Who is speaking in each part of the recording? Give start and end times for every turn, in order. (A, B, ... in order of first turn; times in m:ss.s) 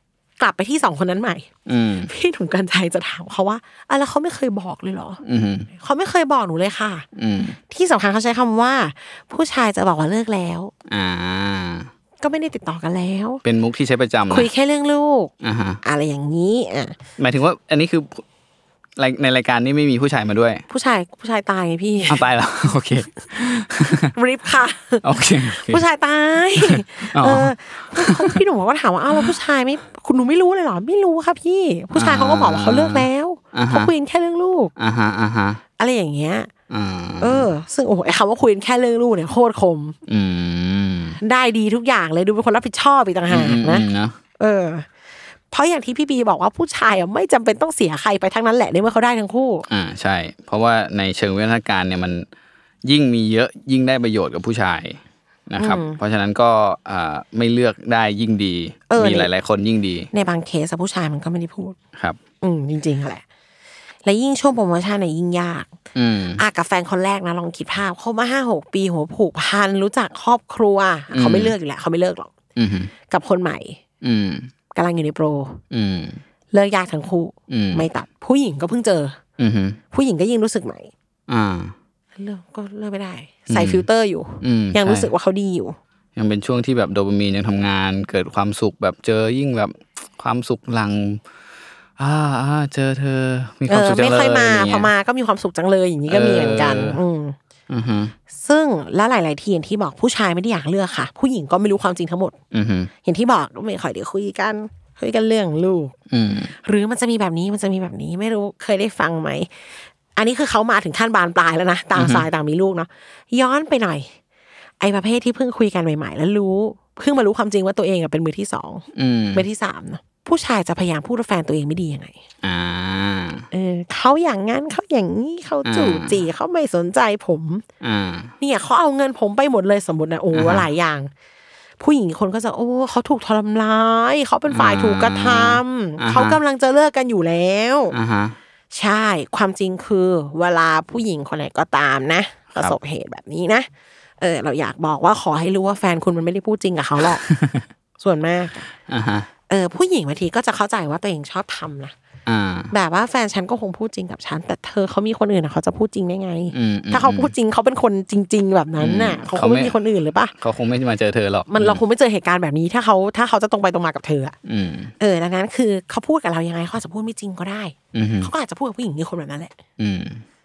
0:00.4-0:01.5 A
0:01.6-0:02.1 B
0:02.0-0:05.2 A
0:05.2-0:05.7 B
0:05.7-0:07.0 A
0:07.2-0:07.6 B
0:07.7-0:10.7 A
0:10.9-0:11.9 B
0:12.2-0:13.4 A
0:13.4-0:14.5 B
0:14.3-0:15.3 A
0:15.4-0:15.8 B
0:15.8-0:17.0 A
0:17.2-0:18.2 B
0:19.0-0:20.6 B
0:20.7-0:22.3 A
0:22.1-0:24.1 B
0:23.9-0:34.7 A
0:25.0-0:25.8 B
0:26.6-0:28.4 B
0:31.9-0:33.9 B
0:34.8-0:35.6 B
0:35.8-0:36.5 A
0:36.7-0:37.5 B
0:37.2-0:40.0 A
0:40.1-0:41.2 B
0:41.2-0:43.9 A
0:43.3-0:44.2 B
0:44.4-0:44.9 A
0:45.5-0:49.6 A
0:49.7-0:52.2 B
0:52.8-1:00.1 B
0:55.6-0:56.0 A
0:58.9-0:59.3 A
1:00.1-1:01.8 A
1:02.4-1:03.2 A
1:04.0-1:05.7 A
1:05.9-1:06.4 B
1:06.4-1:12.3 A
1:11.1-1:11.5 B
1:12.6-1:12.9 B
1:13.1-1:13.8 A
1:14.0-1:14.5 B
1:14.7-1:15.6 A
1:15.7-1:16.2 B
1:16.5-1:19.2 A
1:17.5-1:17.9 B
1:19.4-1:19.8 B
1:19.9-1:20.9 A
1:21.3-1:21.7 B
1:22.2-1:25.8 A
1:23.5-1:23.8 B
1:24.4-1:25.1 B
1:26.2-1:31.2 B
1:32.0-1:34.9 B
1:33.7-1:37.4 A
1:36.1-1:37.0 B
1:37.7-1:38.1 B
1:38.3-1:42.3 A
1:42.5-1:42.9 B
1:43.0-1:45.9 A
1:46.1-1:46.5 B
1:46.6-1:54.1 A
1:51.9-1:52.3 B
1:54.8-2:02.1 A
1:58.9-1:59.4 B
2:02.4-2:03.4 B
2:03.5-2:07.6 A
2:05.6-2:06.2 B
2:07.8-2:08.3 B
2:08.4-2:11.1 A
2:10.3-2:10.7 B
2:11.8-2:18.0 A
2:14.5-2:16.4 B
2:17.9-2:18.4 B
2:18.7-2:23.7 A
2:24.2-2:27.2 A
2:27.2-2:27.6 B
2:28.0-2:28.7 A
2:28.9-2:29.3 B
2:29.5-2:31.9 A
2:32.2-2:32.7 B
2:32.7-2:40.3 A
2:36.5-2:37.3 B
2:38.8-2:39.8 B
2:40.4-2:41.8 B
2:41.5-2:44.3 A
2:44.4-2:44.9 B
2:45.0-2:49.6 A
2:47.9-2:48.3 B
2:49.8-2:50.2 B